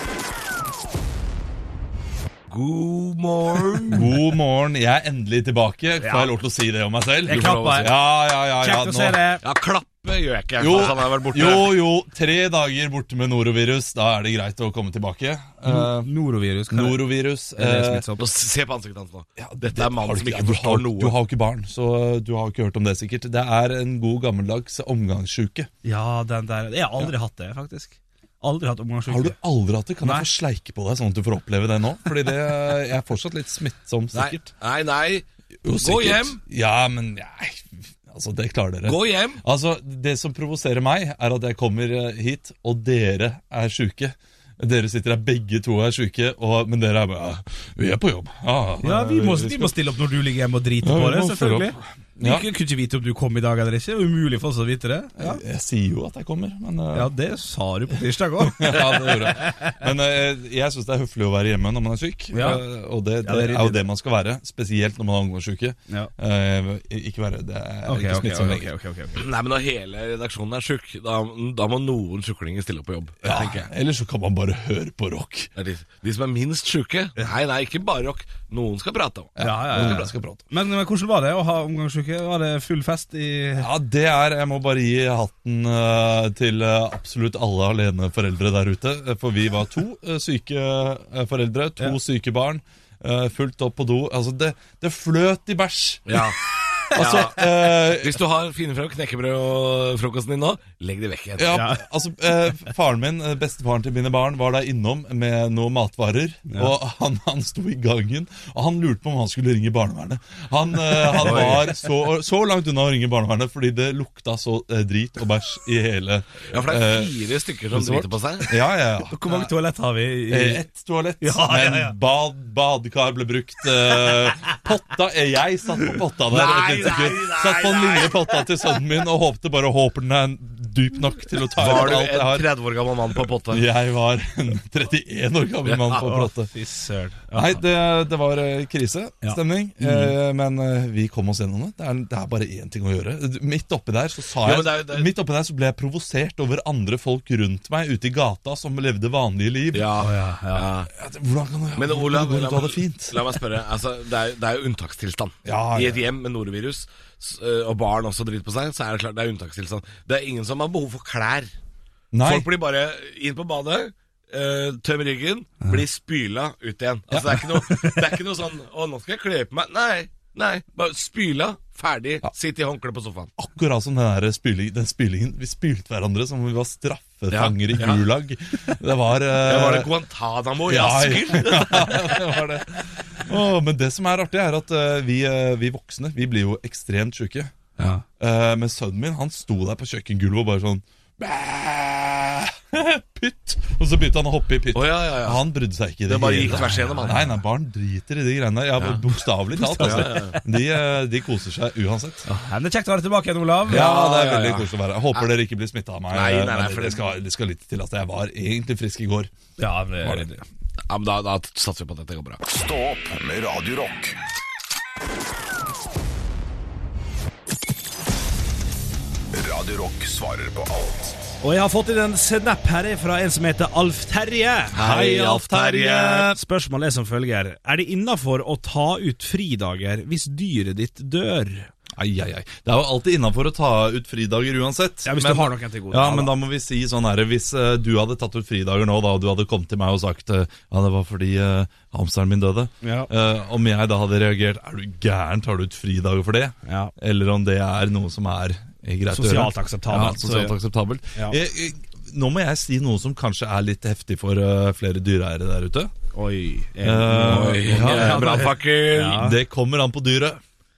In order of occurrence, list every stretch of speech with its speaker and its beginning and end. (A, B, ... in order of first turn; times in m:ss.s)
0:02.5-0:04.1 A
0:03.9-0:09.2 B
0:06.0-0:06.3 C
0:07.3-0:08.0 C
0:07.3-0:07.9 A
0:08.5-0:09.4 C
0:09.4-0:11.8 A
0:10.6-0:16.1 B
0:15.6-0:18.2 C
0:16.7-0:18.0 B
0:18.2-0:21.2 A
0:19.4-0:25.7 B
0:25.8-0:29.4 C
0:29.1-0:34.4 B
0:30.0-0:30.3 C
0:34.1-0:36.4 A
0:35.6-0:49.7 B
0:38.8-0:39.4 A
0:48.8-0:55.4 C
0:50.8-0:52.5 B
0:55.2-0:57.1 B
0:56.9-0:59.8 C
0:58.4-1:08.7 B
1:02.3-1:02.6 C
1:03.2-1:03.8 C
1:07.8-1:09.2 C
1:09.2-1:13.7 A
1:13.2-1:15.5 B
1:15.5-1:19.3 A
1:19.4-1:20.4 B
1:19.4-1:23.7 C
1:23.6-1:36.2 B
1:36.0-1:36.4 A
1:36.9-1:41.6 A
1:36.9-1:38.2 B
1:41.4-1:57.1 B
1:41.5-1:41.8 C
1:46.5-1:46.7 C
1:51.1-1:51.7 C
1:51.2-1:51.6 A
1:56.5-1:58.5 A
1:57.7-1:59.5 B
1:59.1-2:00.6 C
2:00.3-2:12.5 B
2:01.2-2:02.0 C
2:06.3-2:08.2 A
2:11.6-2:13.6 A
2:13.5-2:16.5 B
2:15.6-2:16.1 A
2:16.0-2:17.6 C
2:17.3-2:30.0 B
2:24.4-2:25.1 A
2:29.7-2:30.9 A
2:30.0-2:30.7 C
2:30.9-2:33.4 B
2:31.8-2:41.5 A
2:35.4-2:36.0 B
2:42.1-2:42.5 B
2:42.2-2:53.3 A
2:47.1-2:47.4 B
2:47.6-2:48.0 C
2:53.4-2:59.9 B
2:57.3-2:58.0 A
2:59.4-3:02.6 A
3:00.6-3:07.5 B
3:08.2-3:22.3 B
3:14.7-3:15.4 A
3:16.0-3:17.3 A
3:16.5-3:17.2 C
3:19.6-3:20.4 C
3:19.8-3:20.4 A
3:22.3-3:23.9 C
3:23.7-3:29.3 B
3:23.7-3:25.3 A
3:26.1-3:27.0 A
3:29.6-3:30.4 C
3:30.0-3:30.3 B
3:30.9-3:32.4 A
3:32.4-3:34.2 D
3:39.3-3:41.2 D
3:41.4-3:51.7 C
3:44.7-3:46.4 B
3:51.9-4:15.9 B
3:55.0-3:56.3 C
4:02.8-4:03.1 C
4:06.6-4:06.9 C
4:09.1-4:10.6 C
4:16.1-4:19.4 C
4:16.8-4:18.5 B
4:17.1-4:19.2 A
4:19.1-4:20.4 B